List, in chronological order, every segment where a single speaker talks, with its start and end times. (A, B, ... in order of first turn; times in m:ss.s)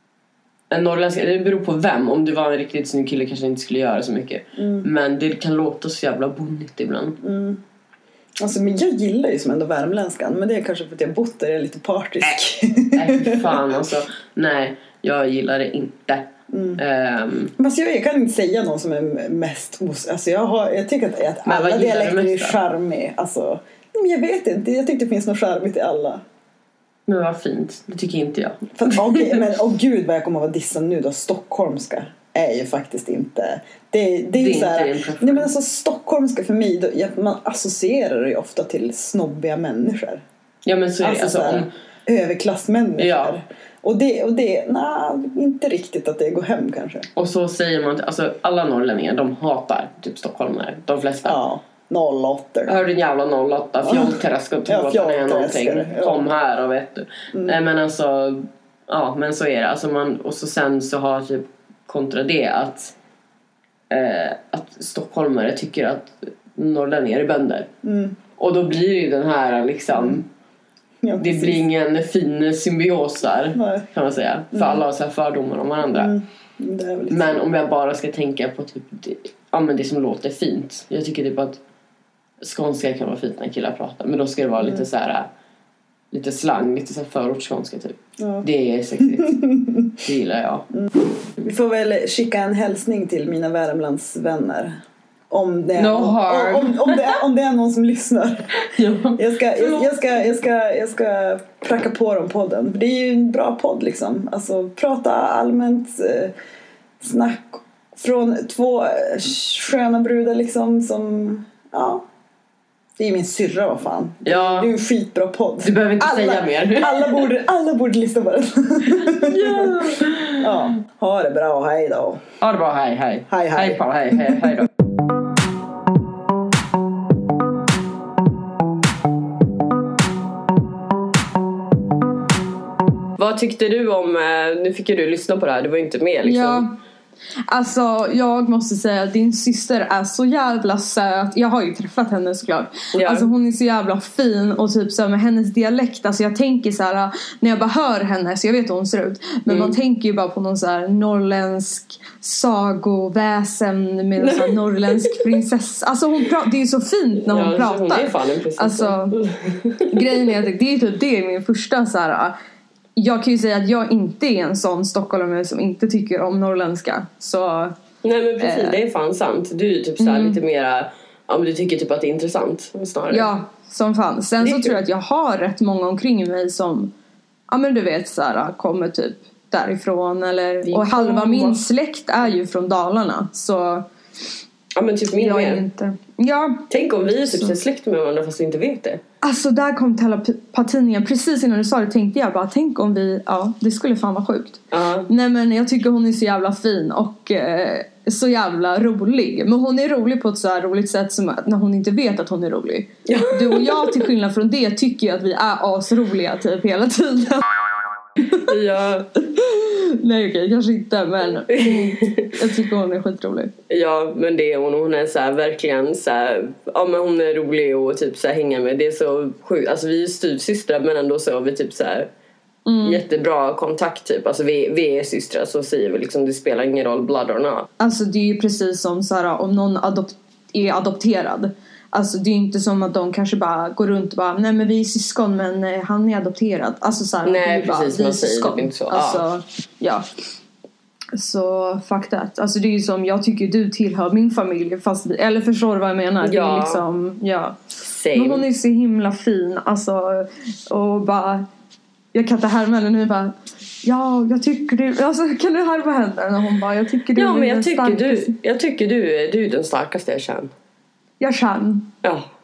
0:00.7-0:07.2 A
0:04.6-0:04.9 B
0:07.2-0:07.6 B
0:08.4-0:13.7 B
0:13.0-0:17.5 A
0:16.5-0:16.8 B
0:17.6-0:26.2 B
0:21.5-0:22.6 A
0:27.1-0:29.4 A
0:28.8-0:40.2 B
0:34.4-0:35.5 A
0:40.6-0:41.7 A
0:41.0-0:47.1 B
0:43.0-0:43.4 A
0:47.2-0:51.4 A
0:51.2-0:52.8 B
0:52.7-1:03.0 A
0:53.8-0:56.3 B
0:57.3-0:57.6 B
1:03.9-1:07.7 A
1:07.8-1:08.2 B
1:08.4-1:10.2 A
1:09.9-1:10.2 B
1:11.0-1:11.6 B
1:11.2-1:16.1 A
1:13.6-1:13.9 B
1:14.5-1:14.8 B
1:15.9-1:17.4 B
1:17.1-1:21.6 A
1:22.4-1:25.3 A
1:26.1-1:29.4 A
1:28.2-1:28.4 B
1:29.0-1:29.9 B
1:30.0-1:30.7 A
1:31.4-1:38.6 B
1:35.8-1:37.2 A
1:38.6-1:39.9 A
1:39.1-1:46.3 B
1:47.0-1:52.0 B
1:53.0-2:02.2 B
1:54.2-1:54.7 A
1:55.6-1:57.3 A
1:59.0-2:00.6 A
2:02.4-2:04.7 A
2:03.3-2:04.5 B
2:13.2-2:16.7 A
2:16.2-2:16.8 C
2:17.5-2:39.2 C
2:22.9-2:23.3 A
2:29.5-2:29.8 A
2:34.2-2:35.2 A
2:37.2-2:40.4 A
2:39.9-2:42.4 C
2:43.0-2:47.7 C
2:48.0-2:53.3 A
2:48.4-2:48.8 C
2:50.0-2:50.4 C
2:53.1-2:56.9 C
2:54.4-2:54.8 A
2:57.5-3:03.9 C
3:00.7-3:01.7 A
3:04.8-3:05.6 A
3:05.1-3:06.7 C
3:06.7-3:09.0 A
3:07.2-3:07.6 C
3:09.2-3:27.5 C
3:14.7-3:15.1 A
3:23.1-3:24.0 A
3:28.3-3:29.1 A
3:29.3-3:33.5 C
3:31.5-3:32.3 A
3:33.7-3:42.1 A
3:42.7-3:43.0 C
3:42.8-3:47.7 A
3:47.8-4:00.1 C
3:57.2-3:59.2 A
4:01.2-4:07.6 C
4:06.2-4:06.8 A
4:07.8-4:08.5 A
4:08.1-4:11.5 C
4:12.1-4:18.4 C
4:17.1-4:20.5 A
4:21.2-4:21.9 C